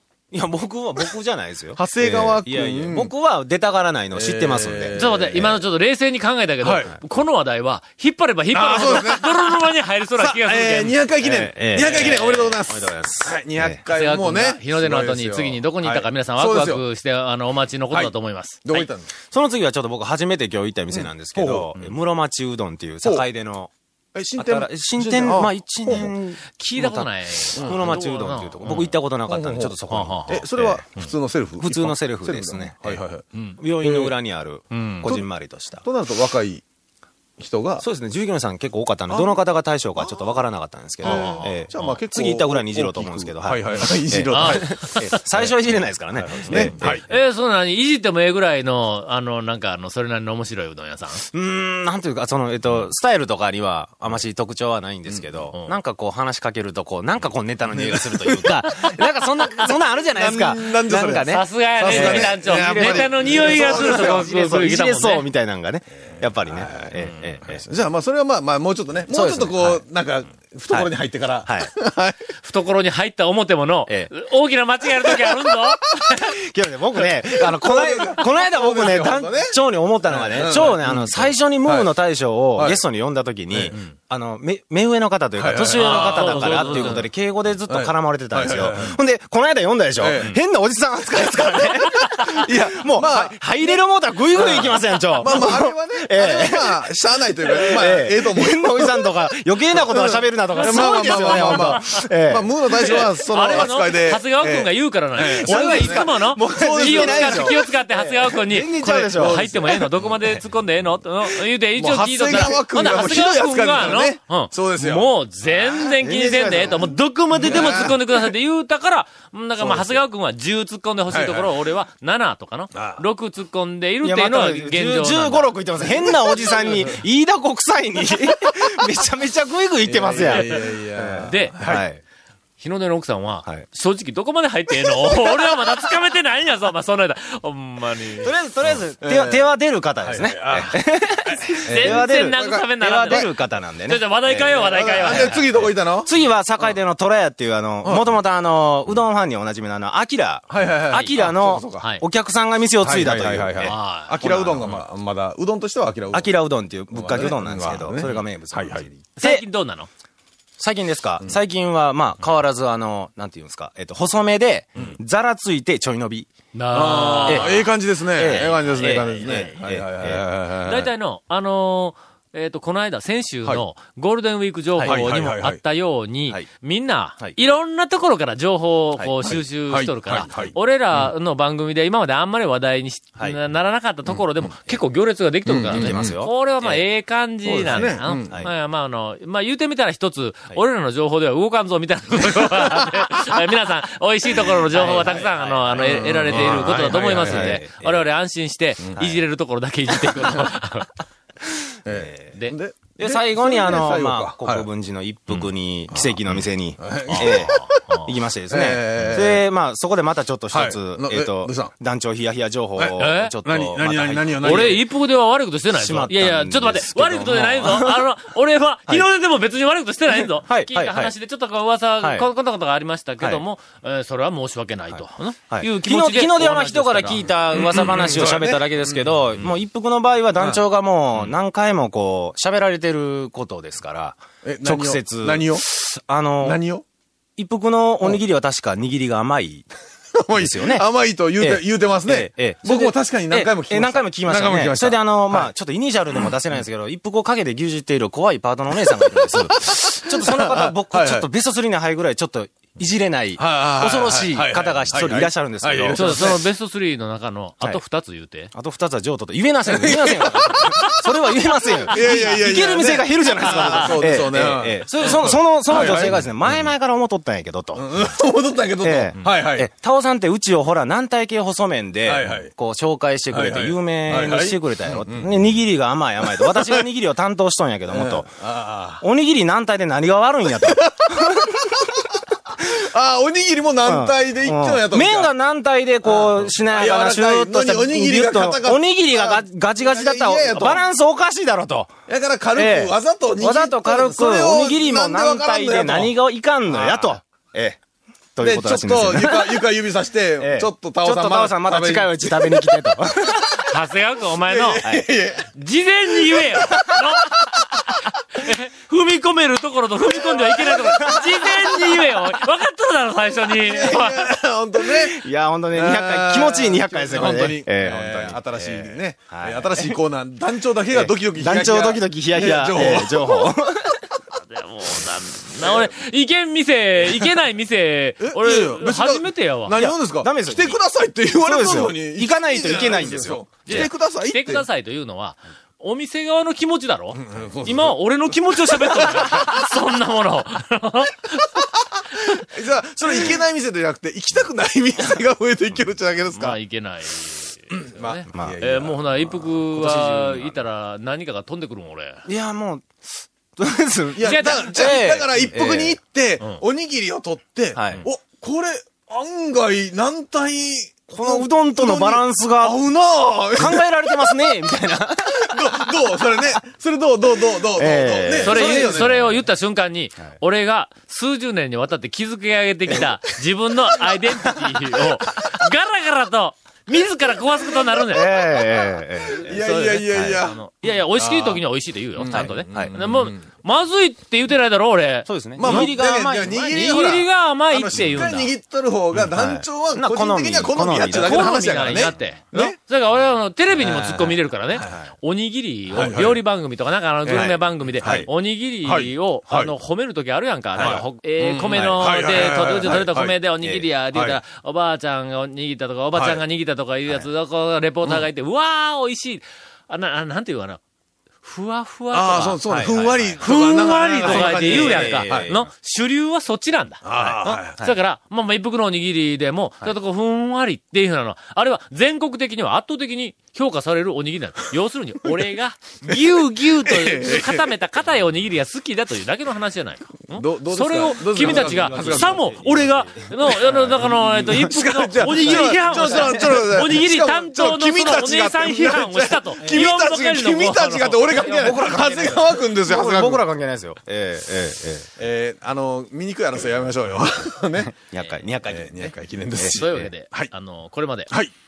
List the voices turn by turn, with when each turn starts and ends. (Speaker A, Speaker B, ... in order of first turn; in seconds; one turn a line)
Speaker A: 0.3-5.0
Speaker B: 1.8-3.1
Speaker B: 4.1-5.6
Speaker C: 5.0-11.0
Speaker B: 6.6-6.9
Speaker B: 8.5-9.6
Speaker B: 10.2-16.8
Speaker A: 11.2-13.8
Speaker C: 11.8-12.3
Speaker C: 13.9-18.9
Speaker B: 18.6-19.1
Speaker A: 19.3-23.7
Speaker B: 20.9-22.0
Speaker B: 24.1-26.1
Speaker A: 24.4-30.9
Speaker C: 26.6-28.9
Speaker B: 27.6-27.9
Speaker B: 28.7-33.3
Speaker C: 29.9-30.4
Speaker A: 31.6-33.0
Speaker A: 33.6-35.9
Speaker B: 33.8-34.1
Speaker C: 34.7-35.1
Speaker B: 35.8-36.6
Speaker B: 37.4-37.8
Speaker A: 37.8-47.1
Speaker B: 39.1-39.4
Speaker B: 41.0-45.6
Speaker C: 41.0-42.0
Speaker C: 44.3-45.0
Speaker B: 46.1-47.0
Speaker C: 46.5-51.2
Speaker A: 51.2-67.6
Speaker B: 55.1-55.5
Speaker B: 57.7-58.7
Speaker B: 60.1-64.3
Speaker C: 61.3-65.3
Speaker B: 66.5-72.2
Speaker A: 69.1-69.8
Speaker A: 71.5-71.7
Speaker C: 72.4-76.3
Speaker A: 76.1-96.9
Speaker B: 77.4-81.9
Speaker B: 82.5-82.8
Speaker B: 83.5-83.8
Speaker B: 85.4-87.0
Speaker C: 85.8-87.0
Speaker B: 87.7-89.0
Speaker B: 90.0-90.3
Speaker B: 92.3-93.8
Speaker B: 94.3-99.1
Speaker A: 97.4-103.7
Speaker B: 99.8-108.2
Speaker C: 100.5-102.0
Speaker C: 102.8-125.5
Speaker A: 105.4-109.9
Speaker B: 109.1-110.1
Speaker B: 111.8-118.3
Speaker A: 116.0-116.7
Speaker B: 119.6-120.0
Speaker B: 121.1-121.5
Speaker B: 122.7-123.0
Speaker A: 124.0-132.0
Speaker B: 126.5-126.9
Speaker B: 129.8-131.8
Speaker C: 131.2-131.5
Speaker C: 132.6-138.3
Speaker A: 138.2-154.7
Speaker B: 139.0-139.5
Speaker B: 140.0-143.3
Speaker C: 141.6-143.3
Speaker C: 143.9-145.5
Speaker B: 144.5-146.1
Speaker B: 147.8-148.2
Speaker B: 150.5-151.9
Speaker B: 152.8-156.3
Speaker C: 153.6-154.7
Speaker A: 156.1-159.4
Speaker B: 156.9-159.0
Speaker C: 159.2-159.9
Speaker A: 160.6-166.3
Speaker C: 166.5-167.7
Speaker B: 166.7-170.9
Speaker A: 167.2-170.2
Speaker C: 168.8-169.6
Speaker C: 170.7-200.9
Speaker A: 174.8-175.0
Speaker B: 174.8-175.6
Speaker A: 179.0-179.4
Speaker B: 179.2-180.6
Speaker B: 185.5-186.2
Speaker A: 185.7-186.8
Speaker B: 187.4-188.4
Speaker B: 192.3-192.9
Speaker A: 194.7-198.1
Speaker B: 195.8-197.6
Speaker B: 201.8-204.7
Speaker A: 201.9-202.3
Speaker A: 203.0-214.8
Speaker B: 205.9-206.2
Speaker B: 206.8-207.8
Speaker C: 207.1-208.1
Speaker B: 208.5-209.5
Speaker B: 210.5-211.7
Speaker B: 212.8-214.8
Speaker C: 213.0-213.3
Speaker C: 214.4-227.4
Speaker A: 215.7-218.1
Speaker A: 220.1-221.1
Speaker A: 222.0-222.3
Speaker A: 223.2-223.4
Speaker A: 224.9-236.6
Speaker B: 227.6-229.1
Speaker B: 230.4-230.6
Speaker B: 234.4-235.6
Speaker B: 236.4-236.8
Speaker A: 237.4-239.7
Speaker B: 240.2-245.5
Speaker A: 240.3-240.9
Speaker A: 241.4-256.3
Speaker B: 248.9-251.3
Speaker B: 253.4-256.4
Speaker C: 255.9-258.5
Speaker A: 258.5-267.9
Speaker B: 259.7-261.1
Speaker B: 261.9-266.5
Speaker C: 263.4-263.9
Speaker B: 267.8-269.7
Speaker A: 268.8-278.3
Speaker B: 272.1-272.5
Speaker B: 273.3-275.4
Speaker B: 276.3-276.9
Speaker B: 277.9-279.0
Speaker A: 279.0-282.0
Speaker B: 280.6-285.3
Speaker A: 283.9-292.0
Speaker B: 286.1-290.9
Speaker B: 292.1-296.1
Speaker A: 292.6-297.8
Speaker B: 296.7-297.2
Speaker A: 298.4-299.6
Speaker B: 298.4-302.8
Speaker A: 300.4-303.7
Speaker C: 303.7-304.8
Speaker B: 304.5-305.5
Speaker A: 304.8-305.1
Speaker C: 305.5-307.5
Speaker B: 306.3-306.6
Speaker C: 308.4-314.2
Speaker B: 310.3-310.9
Speaker A: 310.5-312.3
Speaker B: 313.6-323.5
Speaker A: 314.9-320.0
Speaker A: 320.9-324.0
Speaker C: 324.3-329.8
Speaker B: 328.2-334.7
Speaker A: 329.7-330.8
Speaker A: 331.4-333.9
Speaker C: 333.6-341.5
Speaker B: 337.1-339.5
Speaker B: 341.9-346.6
Speaker C: 346.3-352.3
Speaker B: 347.7-350.5
Speaker A: 349.8-350.3
Speaker A: 352.3-356.0
Speaker B: 354.1-364.4
Speaker C: 354.3-354.8
Speaker A: 357.8-358.1
Speaker A: 361.1-362.8
Speaker A: 363.5-366.0
Speaker B: 365.3-369.3
Speaker A: 367.8-369.3
Speaker C: 368.4-378.3
Speaker A: 378.1-379.5
Speaker B: 379.4-381.6
Speaker C: 379.4-386.0
Speaker A: 380.1-380.4
Speaker B: 382.2-383.4
Speaker A: 382.3-383.0
Speaker A: 385.3-387.1
Speaker B: 385.6-392.8
Speaker C: 386.7-388.5
Speaker A: 389.2-392.7
Speaker C: 391.2-410.8
Speaker A: 393.8-395.0
Speaker B: 395.9-396.4
Speaker B: 397.3-398.3
Speaker A: 397.4-398.3
Speaker B: 398.8-399.7
Speaker A: 400.8-401.0
Speaker B: 400.8-403.4
Speaker A: 401.7-402.1
Speaker B: 404.1-404.4
Speaker B: 406.1-406.4
Speaker C: 411.4-441.8
Speaker B: 412.1-415.5
Speaker A: 412.7-413.7
Speaker A: 414.2-415.7
Speaker B: 417.1-417.8
Speaker A: 417.2-417.9
Speaker B: 426.9-427.7
Speaker B: 430.3-432.6
Speaker A: 431.4-434.0
Speaker B: 433.7-443.4
Speaker A: 435.4-436.5
Speaker A: 441.3-445.1
Speaker B: 445.2-447.9
Speaker A: 447.8-450.1
Speaker B: 448.6-450.5
Speaker C: 449.7-451.3